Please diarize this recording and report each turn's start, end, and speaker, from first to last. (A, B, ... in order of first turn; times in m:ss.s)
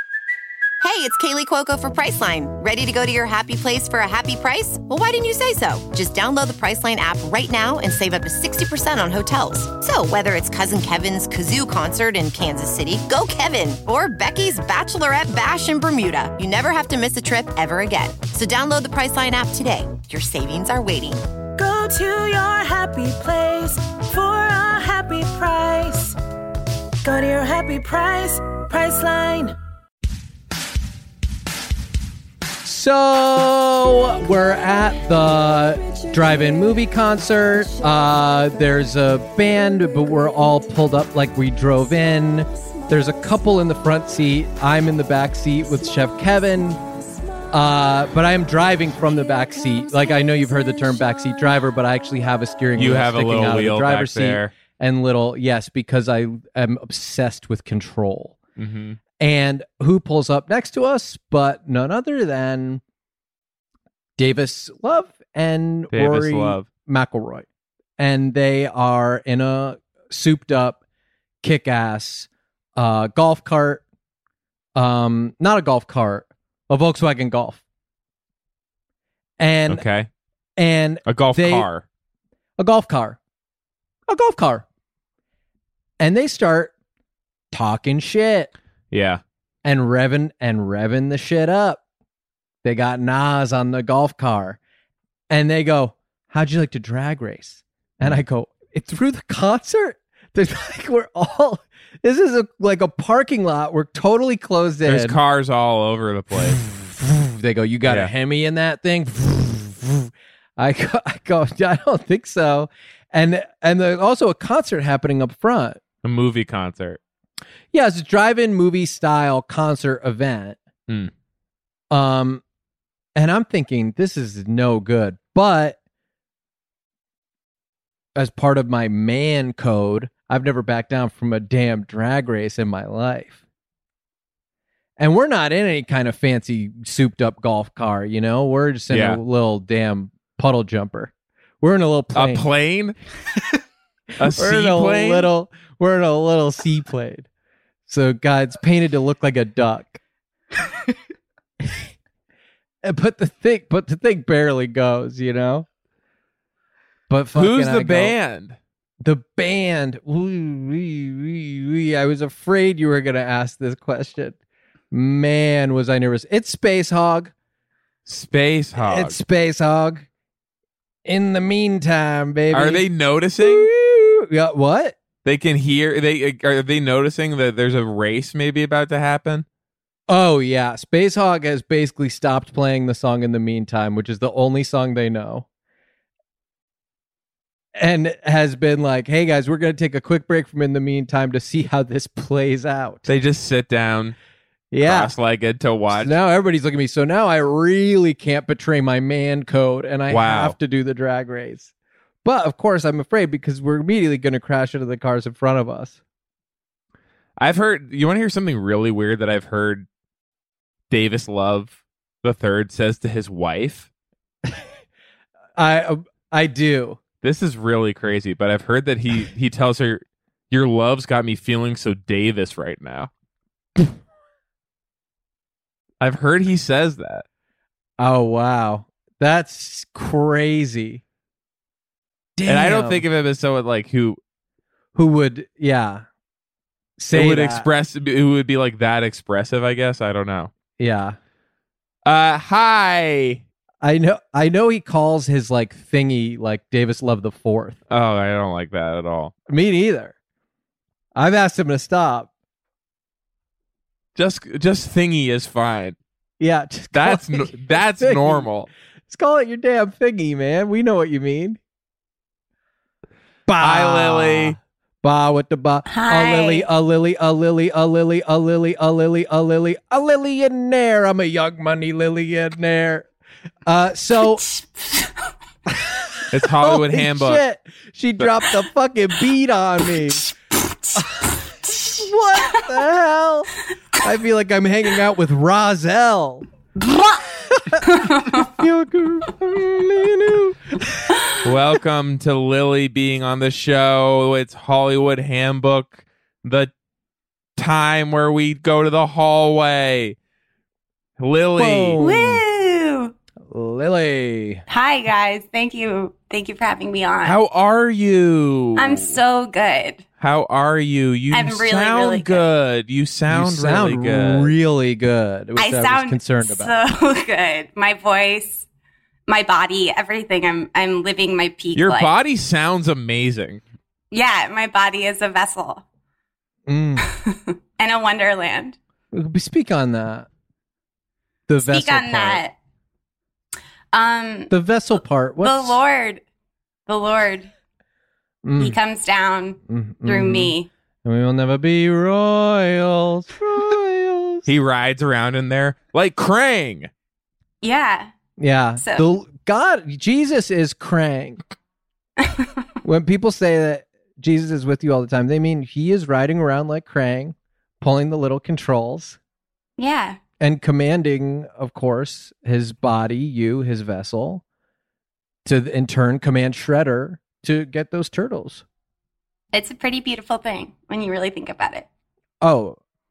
0:00.8-0:21.2 A
0:21.6-0:26.2 B
0:27.0-0:29.6 B
0:32.6-0:46.8 C
0:47.5-0:58.4 C
0:52.8-0:54.5 D
0:58.6-0:59.0 D
0:59.2-1:02.8 C
1:04.2-1:07.5 C
1:05.9-1:06.7 D
1:08.0-1:10.8 C
1:11.4-1:13.8 C
1:14.8-1:17.6 C
1:19.4-1:19.8 C
1:19.7-1:20.1 D
1:20.6-1:21.7 C
1:21.1-1:21.8 D
1:22.6-1:23.2 C
1:24.1-1:24.6 C
1:26.0-1:26.7 C
1:27.5-1:28.5 C
1:28.9-1:29.2 D
1:29.6-1:31.8 C
1:32.6-1:34.6 C
1:35.3-1:45.2 C
1:44.9-1:46.6 D
1:46.4-1:55.8 C
1:47.9-1:48.1 D
1:56.0-1:57.0 D
1:57.7-2:00.6 C
2:01.9-2:02.4 C
2:03.2-2:05.8 C
2:08.2-2:13.4 C
2:15.0-2:22.5 C
2:18.9-2:19.2 D
2:22.2-2:23.0 D
2:24.2-2:25.3 D
2:24.3-2:27.3 C
2:27.9-2:30.0 C
2:32.8-2:35.7 C
2:37.1-2:38.2 C
2:37.4-2:38.6 D
2:39.0-2:44.4 C
2:44.9-2:47.3 C
2:48.1-2:49.2 D
2:48.8-2:50.1 C
2:51.0-2:52.8 C
2:52.5-2:53.7 D
2:53.4-2:55.0 C
2:55.2-2:59.5 D
3:00.1-3:05.4 C
3:07.8-3:13.1 C
3:13.1-3:14.2 D
3:14.7-3:15.1 C
3:14.8-3:16.1 D
3:15.9-3:21.7 C
3:20.1-3:20.6 D
3:22.2-3:26.0 C
3:27.4-3:29.9 D
3:30.9-3:33.9 D
3:35.6-3:37.0 C
3:37.2-3:43.1 D
3:46.0-3:47.2 D
3:48.0-3:51.0 C
3:52.4-3:53.0 C
3:52.5-3:54.2 D
3:55.0-3:56.1 C
3:57.0-3:57.7 C
3:57.1-4:00.5 D
4:00.8-4:01.2 C
4:02.1-4:03.4 D
4:03.8-4:07.8 C
4:07.9-4:09.3 D
4:09.5-4:10.2 C
4:11.2-4:12.3 C
4:14.2-4:16.0 D
4:16.4-4:18.5 C
4:16.9-4:18.7 D
4:19.1-4:21.6 C
4:23.5-4:33.1 C
4:23.6-4:24.6 D
4:25.9-4:26.7 E
4:33.7-4:34.4 C
4:34.4-4:35.1 E
4:35.7-4:40.3 C
4:36.3-4:37.4 D
4:41.0-4:46.5 C
4:41.6-4:41.9 E
4:47.5-4:51.2 C
4:47.8-4:48.5 E
4:51.4-4:56.7 D
4:57.6-5:00.2 D
5:01.2-5:02.0 D
5:01.6-5:02.4 C
5:02.0-5:03.1 E
5:03.5-5:04.6 C
5:04.7-5:07.4 E
5:07.2-5:09.2 D
5:08.8-5:10.0 E
5:10.2-5:14.5 D
5:11.3-5:12.4 E
5:13.3-5:16.8 C
5:15.6-5:18.6 E
5:19.3-5:22.1 E
5:21.8-5:23.6 D
5:24.1-5:25.8 E
5:26.7-5:27.0 C
5:27.1-5:28.8 E
5:29.1-5:30.3 C
5:31.5-5:32.4 C
5:31.6-5:32.5 E
5:33.9-5:34.5 E
5:34.5-5:35.8 C
5:35.4-5:36.2 E
5:36.9-5:37.5 E
5:38.4-5:38.8 C
5:38.6-5:40.7 E
5:39.7-5:44.5 C
5:44.5-5:46.9 D
5:47.6-5:48.1 E
5:48.4-5:51.4 C
5:48.8-5:49.0 E
5:52.2-5:52.5 E
5:52.8-5:59.2 C
5:59.8-6:00.2 E
6:00.4-6:04.4 C
6:05.4-6:08.6 C
6:09.5-6:11.9 E
6:12.4-6:12.8 C